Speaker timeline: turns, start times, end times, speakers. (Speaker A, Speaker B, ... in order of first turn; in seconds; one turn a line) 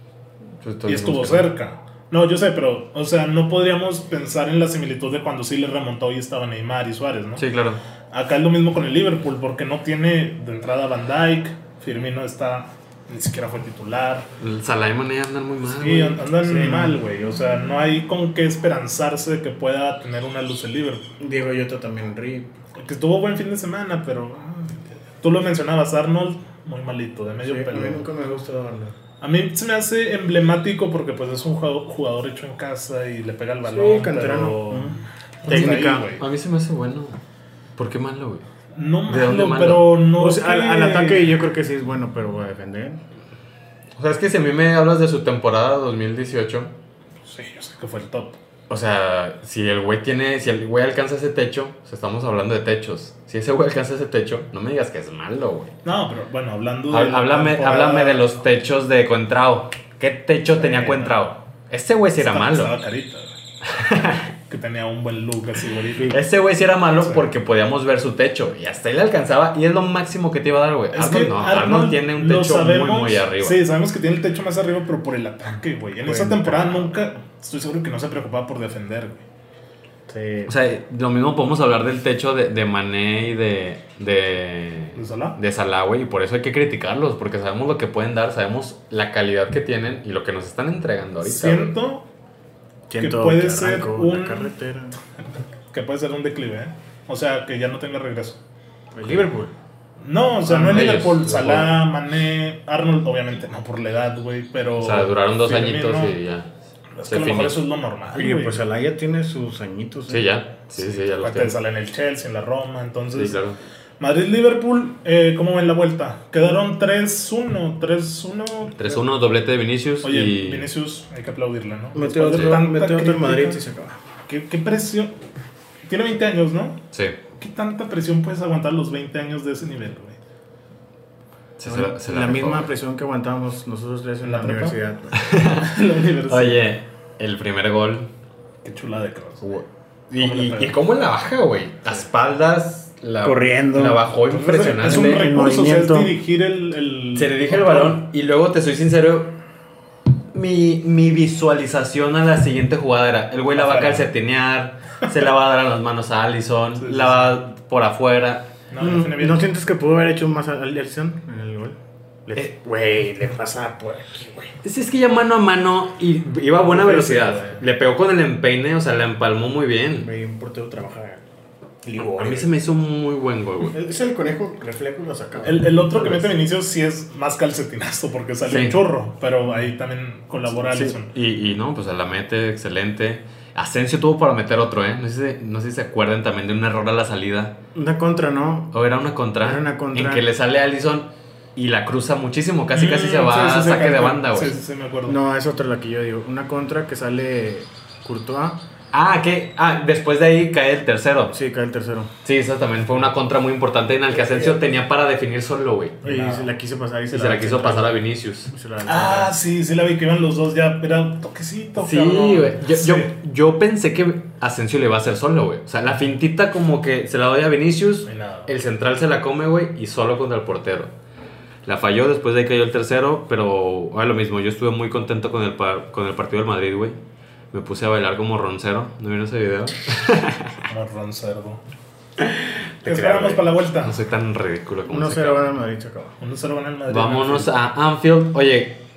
Speaker A: 0.6-1.5
Speaker B: 0.8-7.4
Speaker A: 7.4-7.8
Speaker B: 8.1-14.3
Speaker A: 14.4-16.3
Speaker B: 15.6-21.1
Speaker C: 16.4-17.0
Speaker C: 21.2-22.5
Speaker B: 22.8-28.0
Speaker C: 27.4-28.9
Speaker B: 29.2-36.2
Speaker C: 33.6-36.1
Speaker A: 35.5-37.2
Speaker A: 37.8-38.5
Speaker B: 38.7-41.3
Speaker A: 39.1-39.9
Speaker C: 40.2-43.0
Speaker A: 44.0-46.7
Speaker B: 47.2-48.4
Speaker A: 48.7-55.7
Speaker B: 55.8-58.3
Speaker A: 56.9-62.7
Speaker B: 60.5-61.2
Speaker B: 62.2-63.3
Speaker A: 63.7-64.3
Speaker B: 64.5-66.2
Speaker A: 66.1-73.6
Speaker B: 70.9-79.2
Speaker C: 76.0-76.9
Speaker C: 80.1-80.5
Speaker A: 80.5-91.7
Speaker B: 84.9-85.4
Speaker B: 91.2-92.0
Speaker C: 92.9-95.0
Speaker B: 93.0-94.5
Speaker B: 95.7-98.4
Speaker C: 98.9-99.5
Speaker A: 99.0-99.3
Speaker B: 100.0-106.2
Speaker A: 100.5-101.8
Speaker A: 104.8-106.5
Speaker B: 107.0-108.6
Speaker A: 107.1-107.6
Speaker C: 108.1-110.3
Speaker A: 110.1-111.5
Speaker B: 110.8-113.4
Speaker A: 113.1-113.6
Speaker B: 114.0-119.0
Speaker A: 118.8-120.7
Speaker B: 120.0-123.6
Speaker C: 121.9-124.0
Speaker A: 122.2-122.6
Speaker B: 124.3-125.1
Speaker B: 125.8-126.8
Speaker A: 126.9-127.2
Speaker B: 127.4-130.2
Speaker A: 131.6-132.7
Speaker C: 131.6-135.3
Speaker B: 134.2-134.8
Speaker A: 135.1-138.1
Speaker B: 135.6-136.7
Speaker B: 138.6-139.4
Speaker A: 139.4-145.3
Speaker B: 140.1-140.8
Speaker C: 143.2-144.1
Speaker B: 144.3-148.0
Speaker C: 144.6-146.1
Speaker A: 147.2-149.4
Speaker A: 150.3-158.5
Speaker B: 153.5-154.1
Speaker B: 156.8-157.4
Speaker B: 158.7-159.4
Speaker C: 158.8-164.5
Speaker A: 164.6-170.1
Speaker B: 166.6-167.6
Speaker C: 170.0-171.2
Speaker C: 171.8-172.5
Speaker A: 172.0-173.8
Speaker C: 173.7-176.3
Speaker B: 175.4-181.1
Speaker A: 178.4-178.8
Speaker A: 180.7-187.6
Speaker C: 187.7-188.7
Speaker A: 188.7-194.6
Speaker C: 189.4-190.2
Speaker B: 192.7-195.2
Speaker C: 195.1-198.6
Speaker A: 198.9-201.3
Speaker C: 201.3-202.1
Speaker A: 202.2-206.0
Speaker C: 204.1-204.6
Speaker C: 206.0-208.0
Speaker B: 206.0-206.5
Speaker A: 207.1-208.5
Speaker C: 208.5-209.3
Speaker B: 208.8-213.1
Speaker A: 211.8-220.9
Speaker B: 218.1-218.5
Speaker A: 221.6-227.0
Speaker A: 227.5-230.6
Speaker B: 230.7-231.6
Speaker A: 232.2-235.4
Speaker B: 232.8-234.0
Speaker C: 234.9-236.2
Speaker B: 236.2-237.5
Speaker A: 236.9-238.8